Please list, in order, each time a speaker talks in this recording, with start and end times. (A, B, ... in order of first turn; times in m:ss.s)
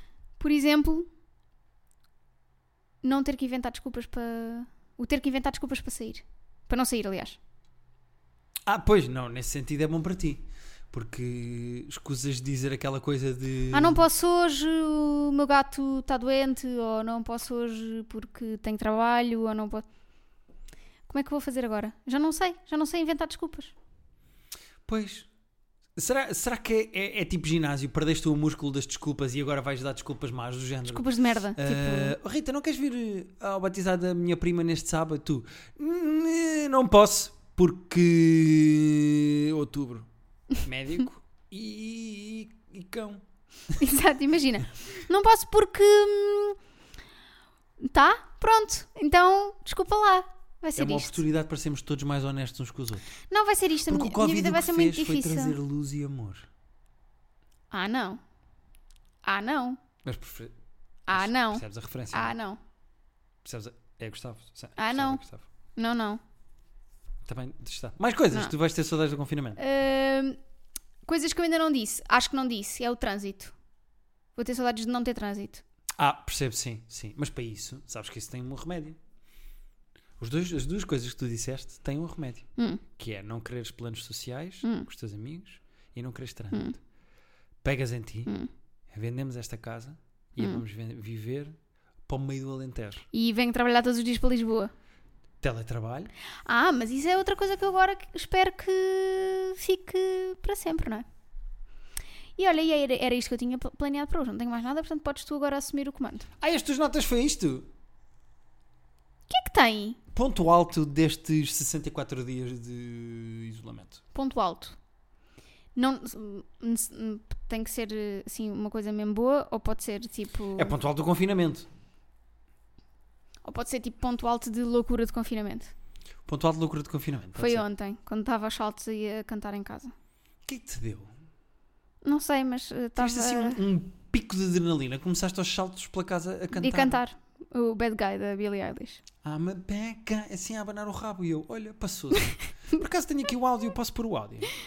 0:00.4-0:01.1 A
0:03.0-0:07.4 A
0:08.6-0:14.0 B
0:13.7-0:19.8 A
0:21.1-0:23.7 A
0:24.8-0:25.3 B
0:26.0-0:40.1 B
0:30.8-0:32.2 A
0:40.6-0:43.2 B
0:43.8-0:46.6 A
0:47.8-0:51.2 A
0:50.8-0:53.1 B
0:53.3-0:55.6 A
0:53.9-0:56.5 B
0:57.7-0:58.2 A
0:59.2-0:59.8 A
1:00.0-1:00.5 B
1:01.1-1:02.6 A
1:01.1-1:02.4 B
1:03.4-1:05.4 B
1:04.8-1:05.2 A
1:05.8-1:06.2 A
1:07.2-1:09.6 B
1:09.6-1:10.4 A
1:11.0-1:13.5 A
1:14.4-1:15.6 A
1:16.0-1:19.0 B
1:20.2-1:26.8 B
1:22.6-1:22.8 A
1:27.6-1:28.3 B
1:28.9-1:31.6 B
1:32.1-1:33.0 B
1:33.1-1:34.7 A
1:35.4-1:36.1 B
1:36.4-1:41.0 A
1:42.4-1:46.3 A
1:46.4-1:47.7 B
1:49.3-1:50.0 A
1:50.1-1:54.0 B
1:54.1-1:54.8 A
1:55.8-2:00.7 A
2:00.6-2:01.7 B
2:03.4-2:05.7 A
2:06.3-2:07.6 B
2:07.4-2:09.9 A
2:10.4-2:11.1 B
2:12.0-2:13.6 A
2:13.0-2:17.0 B
2:16.5-2:19.0 A
2:19.2-2:24.5 B